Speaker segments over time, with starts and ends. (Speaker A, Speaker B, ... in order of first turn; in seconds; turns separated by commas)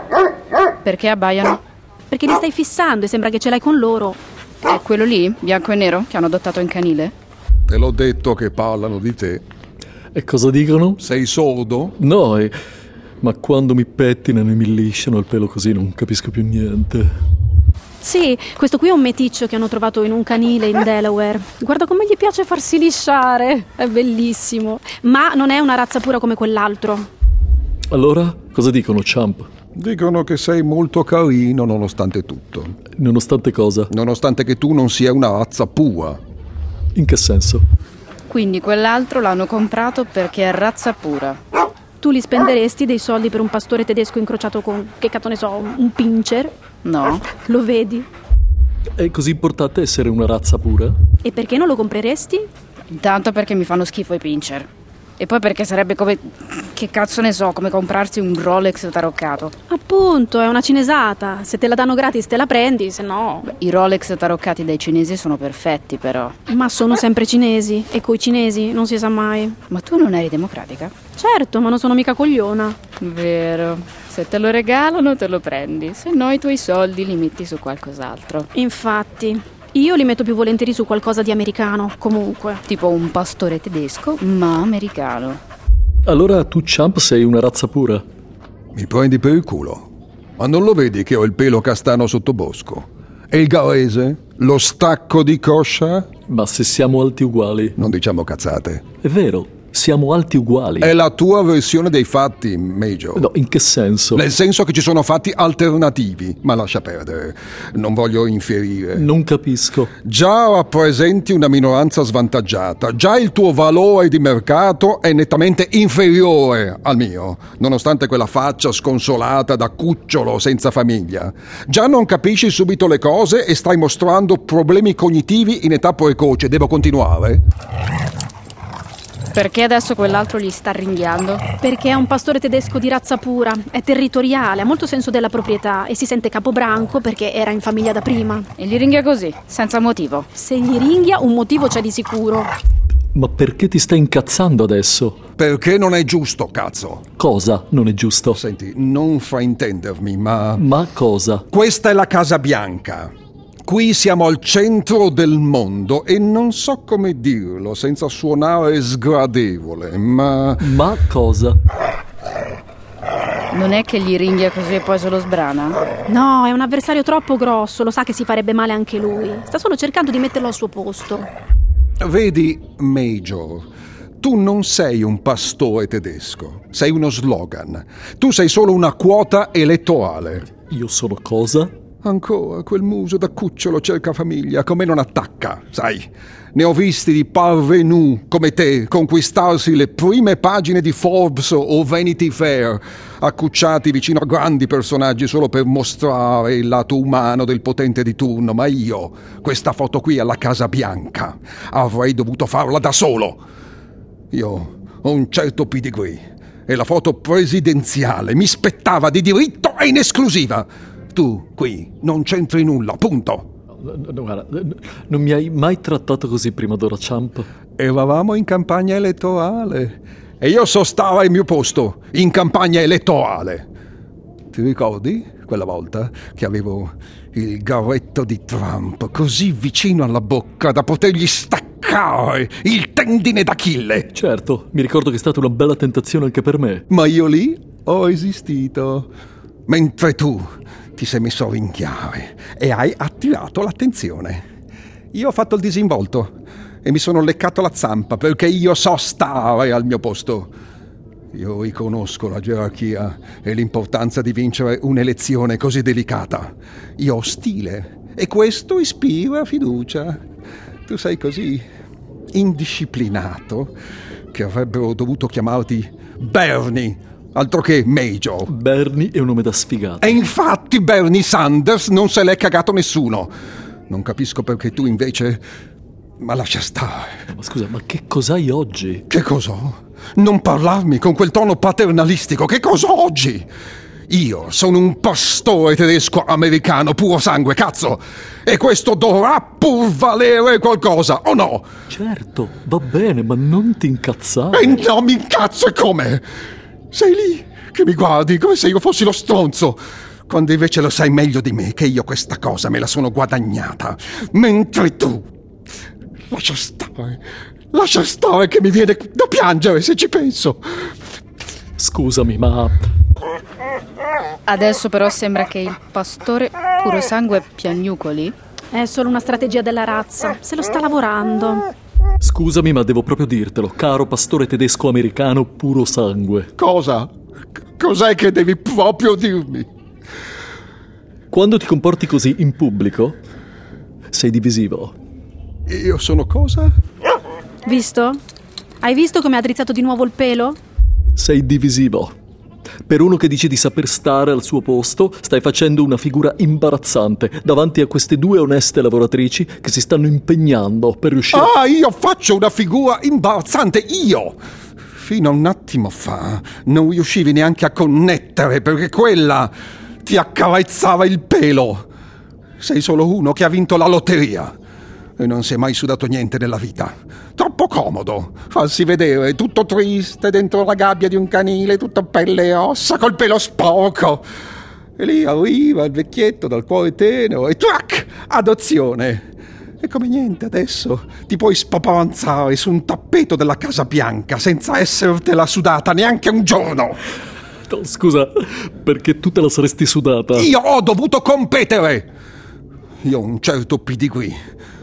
Speaker A: 0.8-1.6, Speaker B: 2.1-4.2, Speaker A: 4.7-7.1, Speaker C: 7.7-9.4, Speaker D: 10.1-11.0, Speaker C: 11.0-11.9, Speaker D: 12.0-12.6, Speaker D: 13.2-17.1, Speaker B: 18.0-27.1, Speaker D: 27.9-29.5, Speaker C: 29.8-32.8, Speaker D: 33.0-33.9, Speaker C: 33.9-36.2, Speaker D: 37.0-37.6, Speaker A: 38.3-41.4, Speaker B: 42.0-46.5, Speaker A: 46.8-47.2, Speaker B: 47.3-48.1, Speaker D: 49.0-51.0, Speaker B: 51.2-52.5, Speaker A: 52.9-54.7, Speaker A: 55.2-59.5, Speaker B: 59.7-63.5, Speaker A: 63.5-66.4, Speaker B: 66.5-69.6, Speaker A: 69.7-70.9, Speaker B: 71.2-72.8, Speaker A: 73.0-78.5, Speaker B: 78.5-82.6, Speaker A: 82.7-85.4, Speaker D: 86.1-88.0, Speaker C: 88.7-89.9, Speaker C: 90.4-96.1, Speaker D: 96.3-97.8, Speaker C: 97.8-98.8, Speaker D: 99.0-100.9, Speaker C: 100.8-103.3, Speaker D: 103.2-104.2, Speaker C: 104.1-109.1, Speaker D: 109.0-109.9, Speaker C: 110.0-127.4, Speaker A: 129.3-131.4, Speaker B: 131.6-138.5, Speaker A: 138.6-140.3, Speaker B: 140.3-142.5, Speaker D: 143.1-145.2, Speaker C: 145.4-147.0, Speaker D: 147.1-148.4, Speaker C: 148.3-150.7, Speaker D: 150.6-151.5, Speaker C: 151.5-153.1, Speaker C: 153.7-160.7, Speaker D: 160.6-161.6, Speaker A: 163.5-165.8, Speaker B: 166.1-171.3, Speaker C: 172.0-173.7, Speaker C: 174.2-180.5, Speaker D: 180.5-181.7, Speaker C: 182.0-203.4, Speaker C: 204.3-213.5, Speaker D: 213.8-217.5, Speaker C: 217.8-223.7, Speaker C: 224.5-234.1, Speaker D: 234.1-236.8, Speaker C: 236.9-239.1, Speaker C: 239.7-244.4, Speaker C: 245.1-246.3, Speaker C: 246.8-250.5, Speaker C: 251.3-260.2, Speaker C: 260.9-261.6, Speaker C: 262.3-263.7, Speaker C: 264.3-268.5, Speaker D: 268.5-270.2, Speaker C: 270.0-273.3, Speaker C: 273.9-275.4, Speaker C: 276.2-277.2, Speaker D: 277.3-279.0, Speaker C: 279.1-283.5, Speaker C: 284.1-291.7, Speaker D: 291.9-294.8, Speaker C: 294.5-296.2, Speaker C: 296.9-305.3, Speaker C: 306.3-307.2, Speaker C: 307.7-310.6, Speaker D: 311.8-312.8, Speaker A: 314.5-318.4, Speaker B: 318.7-321.6, Speaker D: 322.2-326.5, Speaker C: 326.6-327.1, Speaker C: 327.8-329.7, Speaker D: 331.3-333.2, Speaker D: 334.1-334.9, Speaker C: 335.7-336.7, Speaker B: 337.7-338.2, Speaker B: 338.8-340.6, Speaker D: 341.2-342.1, Speaker D: 342.9-351.5, Speaker C: 351.3-354.4, Speaker C: 355.0-359.5, Speaker C: 360.1-361.9, Speaker C: 362.6-364.5, Speaker C: 365.2-374.2, Speaker C: 375.0-379.2, Speaker C: 379.8-387.0, Speaker D: 387.7-390.5, Speaker C: 390.3-392.1, Speaker C: 393.0-394.4